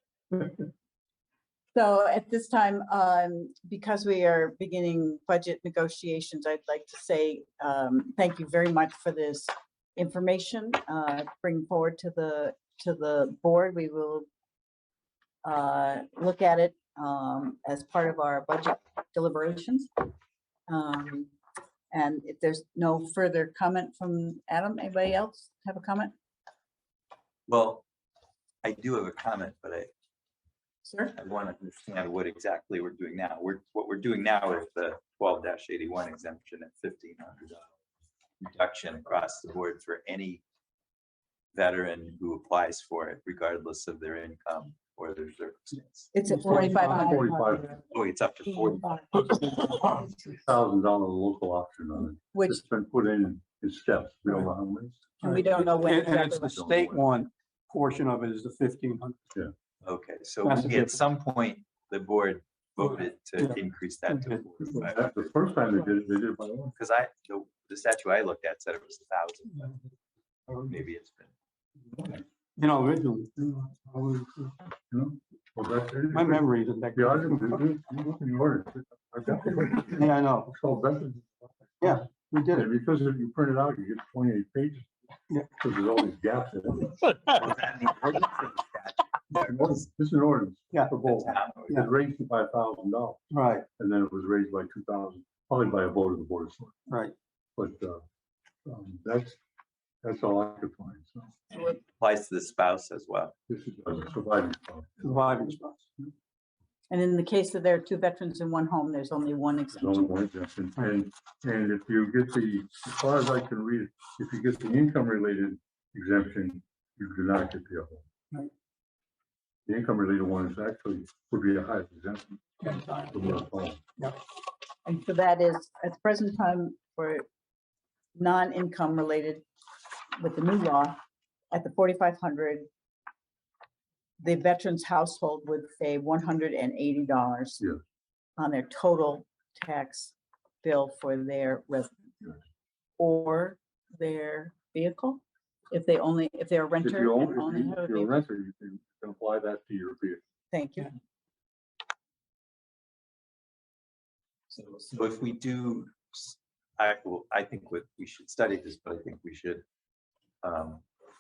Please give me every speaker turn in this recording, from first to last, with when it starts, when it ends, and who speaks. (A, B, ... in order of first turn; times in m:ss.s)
0:01.7-0:14.3 A
0:15.4-0:20.1 A
0:20.7-0:21.3 A
0:21.9-0:26.1 A
0:27.5-0:27.8 B
0:28.6-0:29.9 B
0:30.8-0:31.1 A
0:31.2-0:37.7 B
0:38.4-0:40.4 B
0:41.6-0:46.1 B
0:46.1-0:47.8 A
0:46.3-0:47.3 C
0:46.8-0:47.8 D
0:47.9-0:49.6 B
0:48.5-0:49.2 A
0:50.3-0:57.1 D
0:52.3-0:52.6 A
0:55.2-0:56.5 A
0:55.2-0:59.2 C
0:59.8-1:05.5 B
1:00.4-1:01.0 C
1:03.4-1:04.5 C
1:04.6-1:06.8 D
1:06.8-1:09.7 B
1:10.6-1:11.3 B
1:11.9-1:12.2 D
1:12.6-1:14.6 C
1:14.9-1:22.0 D
1:16.1-1:17.7 C
1:19.3-1:20.5 C
1:21.8-1:22.7 C
1:22.5-1:24.9 D
1:25.6-1:27.0 D
1:27.3-1:29.8 B
1:29.3-1:33.2 D
1:30.7-1:31.0 C
1:31.0-1:31.8 B
1:33.3-1:33.6 C
1:33.8-1:36.8 D
1:36.9-1:37.1 C
1:37.6-1:38.0 D
1:38.7-1:39.4 D
1:40.0-1:41.4 D
1:41.5-1:43.4 B
1:43.5-1:46.1 D
1:45.0-1:45.9 C
1:46.9-1:50.1 A
1:49.7-1:58.0 D
1:59.7-2:03.8 D
2:02.6-2:03.4 C
2:04.9-2:07.2 A
2:08.2-2:09.4 A
2:10.2-2:11.0 A
2:11.5-2:12.7 A
2:14.2-2:17.6 A
2:18.4-2:22.3 A
2:23.0-2:28.1 A
2:26.8-2:30.2 D
2:30.5-2:30.9 A
2:34.5-2:39.6 B
2:40.4-2:40.8 B